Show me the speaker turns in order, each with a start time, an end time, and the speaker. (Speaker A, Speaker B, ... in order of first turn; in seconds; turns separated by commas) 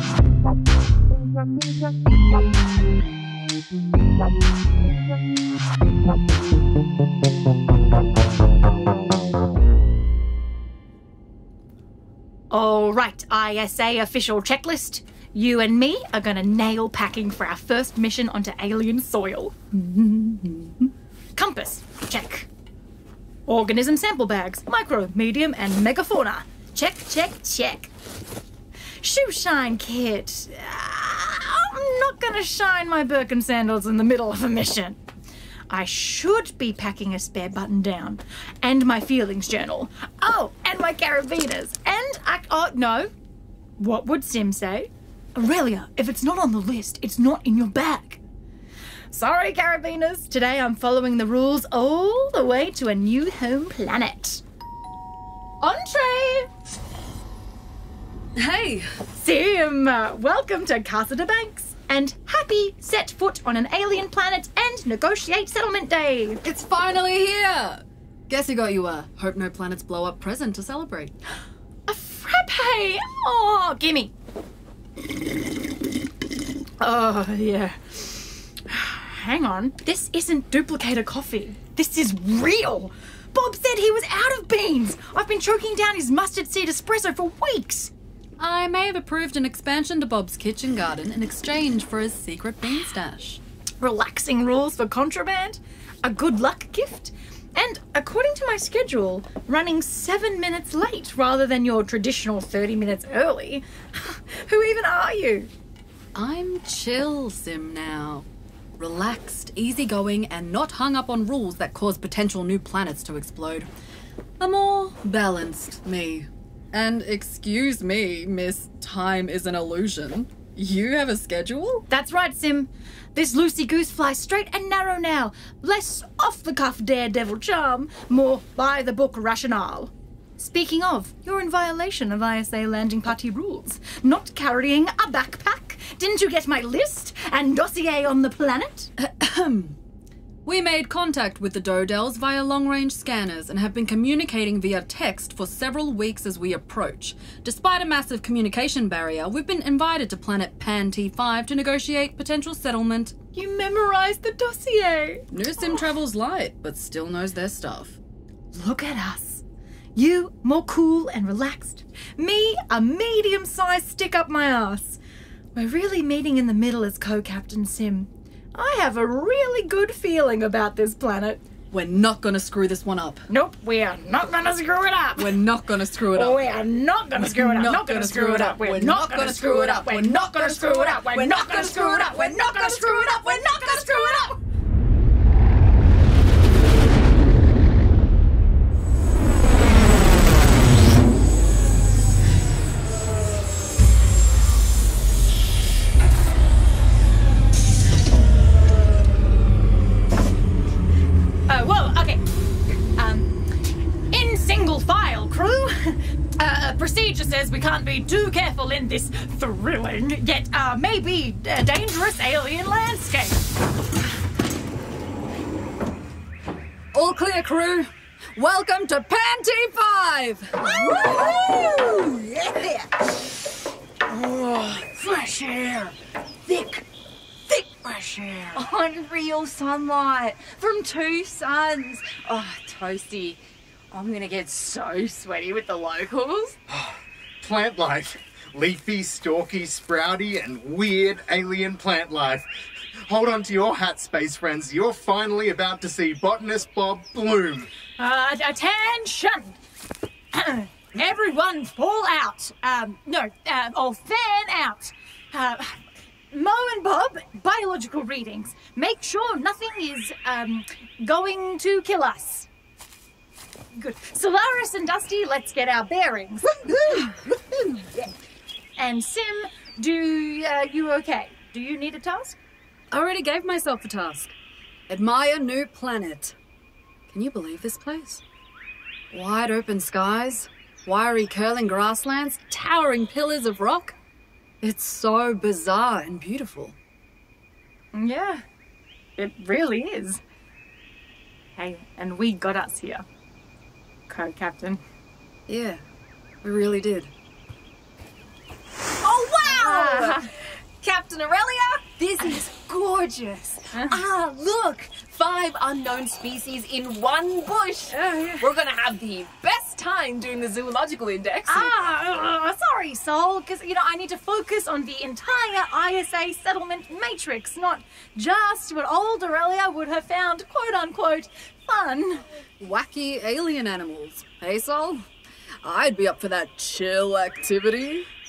Speaker A: 12.5-20.7, Speaker A: 21.4-22.5, Speaker A: 23.5-27.9, Speaker A: 29.0-35.0, Speaker A: 35.7-43.1, Speaker A: 43.8-48.2, Speaker A: 49.1-54.4, Speaker A: 55.6-56.5, Speaker B: 58.4-59.0, Speaker A: 59.1-66.4, Speaker B: 66.4-71.1, Speaker A: 71.9-74.1, Speaker A: 76.8-87.9, Speaker B: 88.4-93.4, Speaker A: 93.8-105.5, Speaker B: 106.2-108.3, Speaker B: 108.8-113.7, Speaker B: 114.4-121.9, Speaker A: 121.9-138.9, Speaker B: 139.0-139.8, Speaker B: 140.4-153.2, Speaker A: 153.3-155.2, Speaker B: 155.3-158.0, Speaker A: 158.5-159.4, Speaker A: 159.9-165.0, Speaker A: 165.6-171.4, Speaker B: 171.7-173.2, Speaker A: 173.3-175.4, Speaker B: 175.2-176.6, Speaker A: 176.2-184.4, Speaker B: 177.2-184.3, Speaker A: 201.5-202.2, Speaker A: 202.9-203.5, Speaker A: 204.1-213.4, Speaker B: 216.9-220.6, Speaker C: 220.6-222.9, Speaker C: 224.1-226.9, Speaker C: 227.5-228.7, Speaker D: 228.6-233.4, Speaker D: 233.9-236.6, Speaker E: 236.7-242.5, Speaker E: 243.1-247.7, Speaker A: 248.0-249.6, Speaker A: 250.3-262.5, Speaker A: 263.7-266.6, Speaker C: 266.6-268.1, Speaker A: 268.8-272.4, Speaker B: 272.9-274.3, Speaker B: 274.9-276.4, Speaker B: 277.1-278.2, Speaker B: 279.1-283.9, Speaker B: 284.6-286.8, Speaker A: 287.9-288.4, Speaker A: 289.2-290.2, Speaker A: 291.6-293.1, Speaker A: 294.1-294.8, Speaker B: 295.5-295.8, Speaker B: 296.4-297.1, Speaker F: 299.0-311.7, Speaker A: 299.4-300.3, Speaker A: 303.7-304.0, Speaker A: 307.9-308.4, Speaker A: 311.5-322.2, Speaker B: 322.6-325.1, Speaker B: 325.6-328.1